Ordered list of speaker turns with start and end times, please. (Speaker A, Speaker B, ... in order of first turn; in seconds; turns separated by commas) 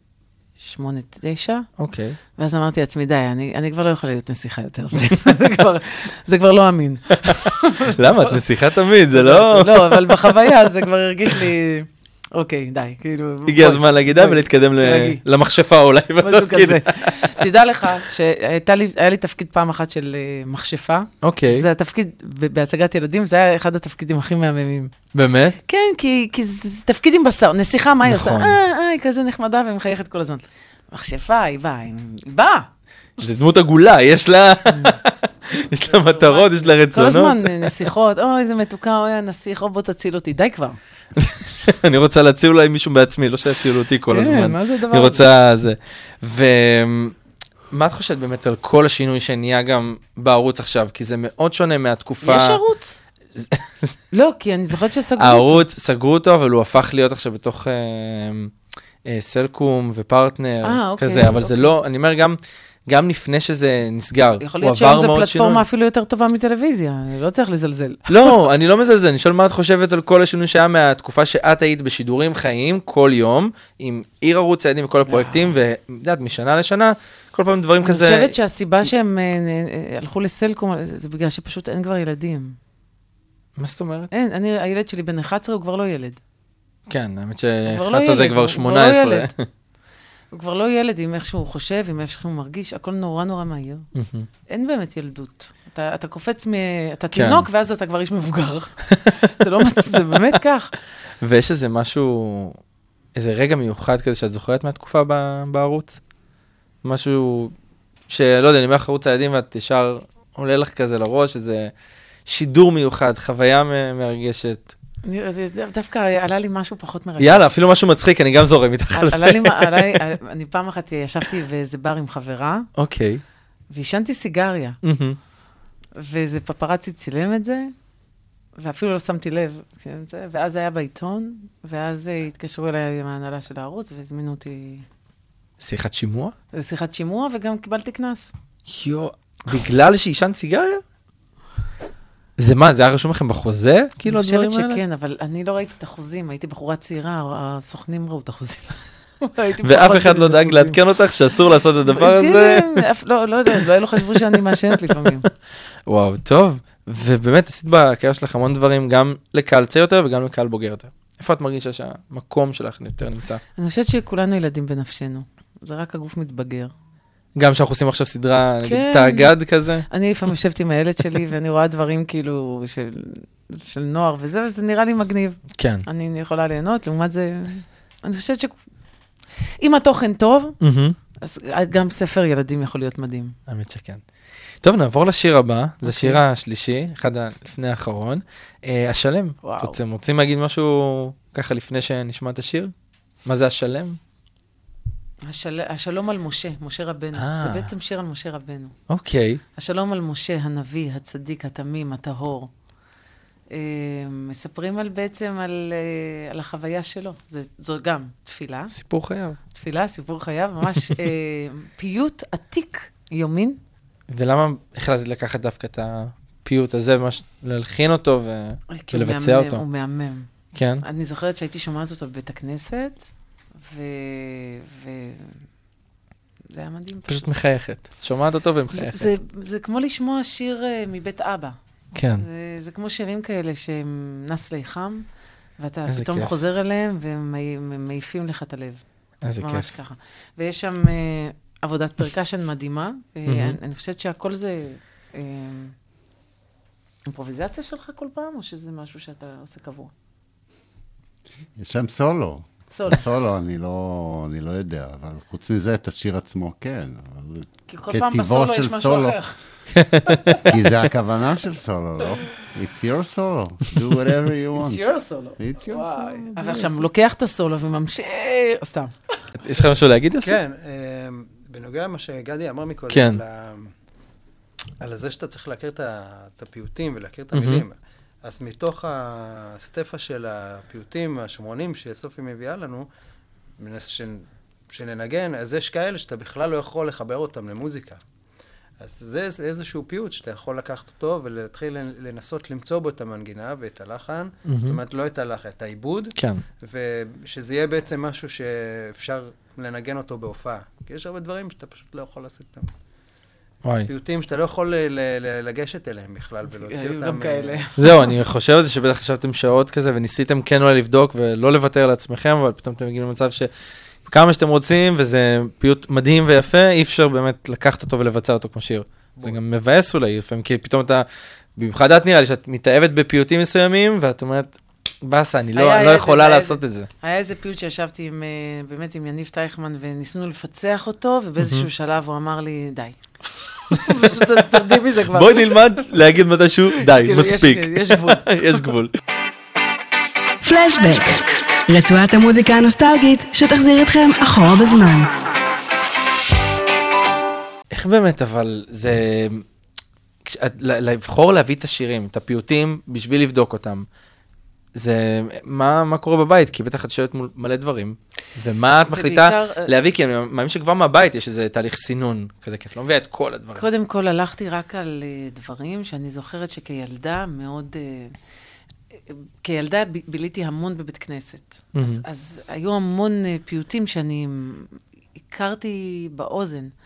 Speaker A: 0.6-1.7, Speaker B: 1.8-2.2, Speaker A: 2.4-8.3, Speaker B: 7.3-10.5, Speaker A: 9.1-15.2, Speaker B: 13.5-17.4, Speaker A: 16.2-24.9, Speaker B: 21.2-21.7, Speaker B: 25.1-25.6, Speaker A: 25.6-32.7, Speaker B: 28.1-28.6, Speaker B: 33.2-37.9, Speaker A: 34.7-35.0, Speaker A: 35.9-40.8, Speaker B: 41.2-47.1, Speaker A: 44.1-45.3, Speaker B: 47.7-52.6, Speaker A: 52.2-53.0, Speaker B: 53.4-53.9, Speaker A: 54.1-55.6, Speaker B: 55.2-58.5, Speaker B: 59.0-65.6, Speaker A: 60.6-61.7, Speaker A: 64.4-68.1, Speaker B: 68.1-78.3, Speaker A: 75.1-75.5, Speaker A: 77.8-82.6, Speaker B: 83.6-84.1, Speaker A: 84.1-86.2, Speaker B: 86.9-89.5, Speaker A: 87.7-89.3, Speaker A: 90.3-93.9, Speaker B: 94.0-94.3, Speaker A: 94.5-100.7, Speaker B: 97.1-97.5, Speaker B: 98.9-100.4, Speaker B: 101.2-102.6, Speaker B: 103.2-106.0, Speaker B: 106.8-107.5, Speaker B: 108.1-111.7, Speaker B: 112.3-114.8, Speaker A: 115.0-117.5, Speaker B: 117.2-120.0, Speaker A: 118.9-122.7, Speaker B: 122.8-123.2, Speaker A: 123.7-124.8, Speaker B: 124.8-125.2, Speaker A: 126.0-127.7, Speaker A: 128.6-134.8, Speaker B: 135.6-136.3, Speaker A: 136.5-138.3, Speaker B: 138.7-140.8, Speaker B: 142.4-144.8, Speaker A: 144.1-150.8, Speaker B: 149.6-152.8, Speaker A: 151.9-155.3, Speaker B: 153.5-155.3, Speaker B: 155.9-163.4, Speaker A: 163.6-166.7, Speaker B: 167.4-169.9, Speaker A: 168.6-169.3, Speaker A: 169.9-178.6, Speaker B: 175.6-175.9, Speaker A: 179.6-180.6, Speaker B: 180.6-181.0, Speaker A: 181.2-183.3, Speaker B: 183.5-184.0, Speaker B: 184.6-192.7, Speaker A: 185.8-186.2, Speaker A: 189.4-189.8, Speaker B: 193.2-194.0, Speaker A: 195.2-198.8, Speaker B: 197.2-197.7, Speaker B: 198.9-199.4, Speaker A: 199.6-202.5, Speaker A: 203.5-208.7, Speaker B: 208.7-209.4, Speaker A: 209.5-213.6, Speaker B: 214.1-219.6, Speaker A: 218.7-220.3, Speaker B: 220.5-220.8, Speaker A: 220.8-223.1, Speaker A: 223.6-225.4, Speaker A: 226.5-227.3, Speaker B: 227.1-229.1, Speaker A: 228.7-231.6, Speaker B: 231.9-232.3, Speaker A: 232.2-235.1, Speaker A: 235.6-238.8, Speaker B: 235.9-236.4, Speaker B: 239.2-239.7, Speaker A: 239.4-245.7, Speaker B: 243.3-243.6, Speaker A: 247.1-249.9, Speaker C: 251.6-259.2, Speaker A: 252.7-253.0, Speaker A: 257.7-259.4, Speaker B: 259.8-260.5, Speaker A: 260.1-260.5, Speaker C: 260.5-264.9, Speaker A: 264.5-268.9, Speaker C: 265.4-266.8, Speaker B: 269.4-270.4, Speaker D: 270.2-273.7, Speaker B: 272.9-273.2, Speaker D: 274.8-282.9, Speaker B: 277.3-277.6, Speaker D: 283.6-288.0, Speaker D: 288.8-302.7, Speaker B: 294.5-294.8, Speaker B: 296.2-296.4, Speaker B: 303.6-303.9, Speaker D: 303.9-307.7, Speaker A: 306.5-308.1, Speaker B: 307.8-313.5, Speaker B: 314.1-326.9, Speaker A: 325.6-333.0, Speaker B: 331.4-331.7, Speaker A: 333.7-335.6, Speaker B: 333.7-338.9, Speaker A: 336.8-338.6, Speaker E: 340.4-345.1, Speaker B: 347.7-349.5, Speaker B: 350.2-353.9, Speaker B: 354.8-363.7, Speaker A: 358.9-359.7, Speaker A: 363.6-368.2, Speaker A: 369.1-374.8, Speaker B: 371.7-372.0, Speaker A: 375.3-376.7